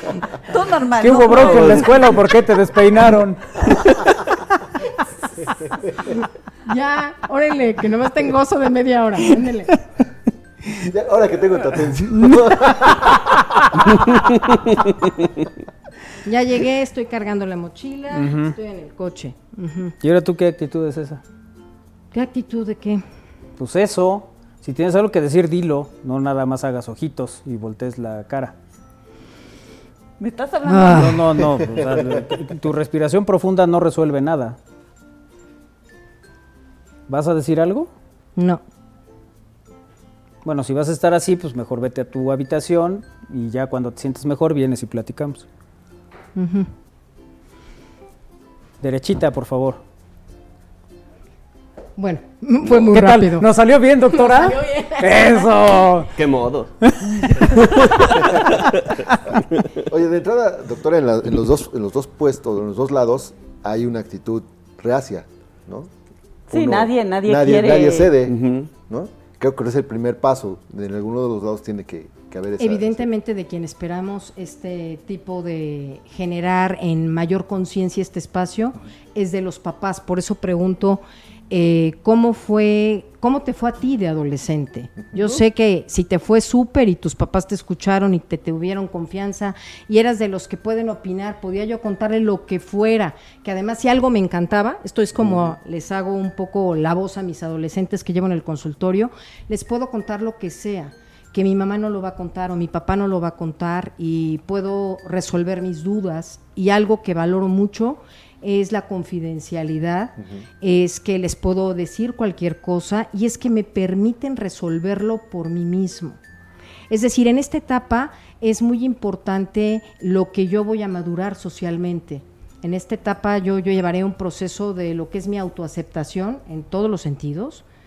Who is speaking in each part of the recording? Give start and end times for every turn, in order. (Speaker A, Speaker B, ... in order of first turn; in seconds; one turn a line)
Speaker A: 0.4-2.1
Speaker B: 1.0-3.8
Speaker C: 6.7-9.8
Speaker D: 10.8-13.0
Speaker C: 16.2-19.9
Speaker B: 18.1-18.6
Speaker B: 20.0-21.2
Speaker C: 22.1-23.0
Speaker B: 23.6-28.6
Speaker A: 30.2-31.2
Speaker C: 30.7-31.2
Speaker B: 30.9-34.6
Speaker B: 37.1-37.9
Speaker C: 38.4-38.6
Speaker B: 40.4-45.5
Speaker C: 46.4-46.7
Speaker B: 48.8-49.8
Speaker C: 52.0-53.5
Speaker B: 52.9-56.1
Speaker A: 54.5-55.2
Speaker E: 56.1-56.7
Speaker B: 56.9-58.0
Speaker E: 57.5-58.7
Speaker D: 59.9-65.9
Speaker D: 66.5-73.1
Speaker A: 66.5-68.2
Speaker E: 68.2-68.7
Speaker C: 72.6-116.2
Speaker D: 110.2-110.4
Speaker C: 116.9-127.6